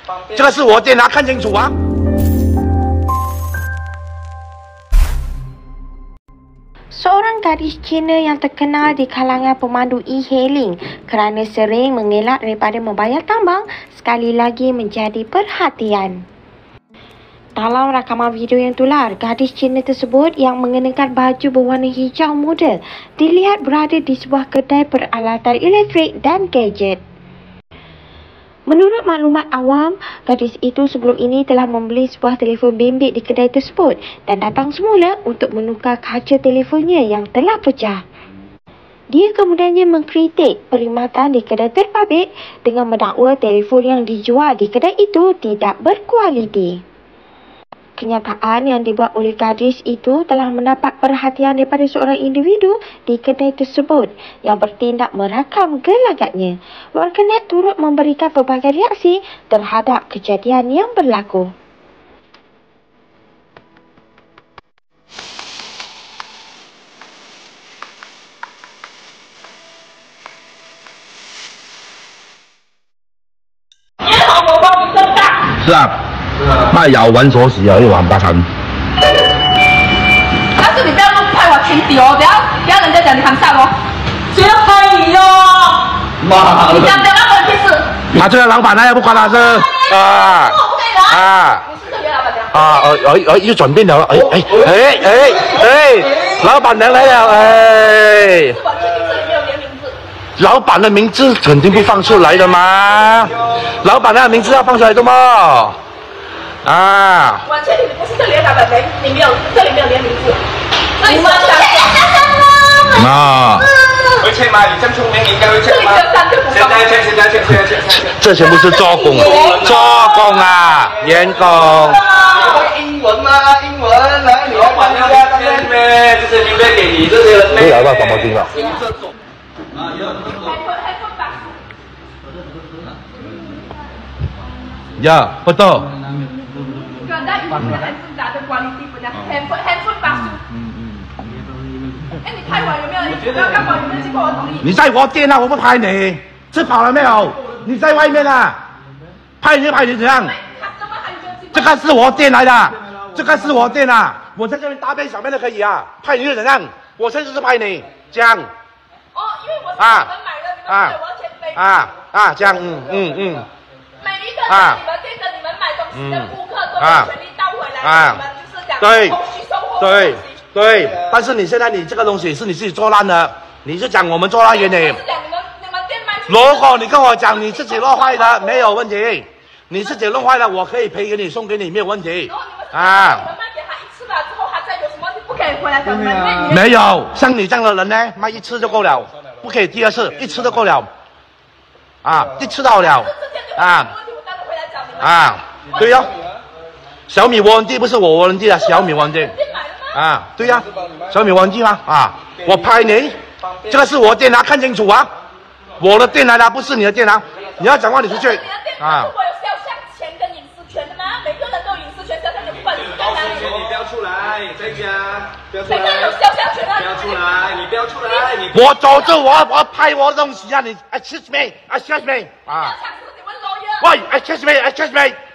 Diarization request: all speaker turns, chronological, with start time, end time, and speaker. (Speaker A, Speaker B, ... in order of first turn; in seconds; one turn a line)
Speaker A: 0.3-1.7
Speaker B: 7.0-16.2
Speaker B: 17.6-27.0
Speaker B: 28.7-38.0
Speaker B: 39.1-46.8
Speaker B: 48.0-61.5
Speaker C: 74.0-75.5
Speaker A: 75.6-76.0
Speaker A: 76.6-78.5
Speaker C: 80.6-83.8
Speaker C: 84.3-85.8
Speaker C: 86.4-87.9
Speaker A: 88.1-90.6
Speaker C: 89.1-92.8
Speaker A: 91.1-91.6
Speaker A: 92.5-98.6
Speaker C: 98.5-100.0
Speaker A: 100.4-105.8
Speaker C: 102.0-102.6
Speaker A: 106.6-107.4
Speaker C: 107.5-110.4
Speaker C: 111.0-112.4
Speaker A: 112.9-113.7
Speaker D: 114.2-118.2
Speaker C: 115.6-116.9
Speaker A: 118.1-122.1
Speaker C: 118.5-120.1
Speaker D: 118.8-120.2
Speaker D: 121.5-128.6
Speaker C: 122.0-122.6
Speaker A: 127.6-128.4
Speaker C: 128.5-128.8
Speaker C: 130.3-131.6
Speaker A: 135.0-135.9
Speaker C: 137.0-140.4
Speaker C: 142.2-144.7
Speaker A: 144.6-148.6
Speaker A: 149.4-150.3
Speaker C: 150.2-151.9
Speaker A: 151.5-158.5
Speaker C: 159.1-161.7
Speaker A: 159.8-160.1
Speaker A: 160.7-161.0
Speaker A: 161.6-163.5
Speaker C: 164.0-170.4
Speaker A: 164.5-164.8
Speaker A: 165.9-167.1
Speaker A: 167.8-168.2
Speaker A: 168.8-169.2
Speaker A: 169.8-175.0
Speaker C: 174.5-178.7
Speaker A: 176.3-183.3
Speaker C: 182.3-186.7
Speaker A: 186.5-190.9
Speaker A: 192.0-193.9
Speaker C: 192.7-196.0
Speaker A: 195.0-196.1
Speaker A: 197.1-199.4
Speaker C: 198.6-200.0
Speaker A: 199.9-205.1
Speaker A: 205.8-209.1
Speaker C: 208.0-213.6
Speaker D: 212.9-216.1
Speaker C: 215.7-217.3
Speaker D: 216.8-218.6
Speaker C: 218.1-219.2
Speaker A: 218.5-222.7
Speaker C: 222.5-223.9
Speaker A: 223.8-225.2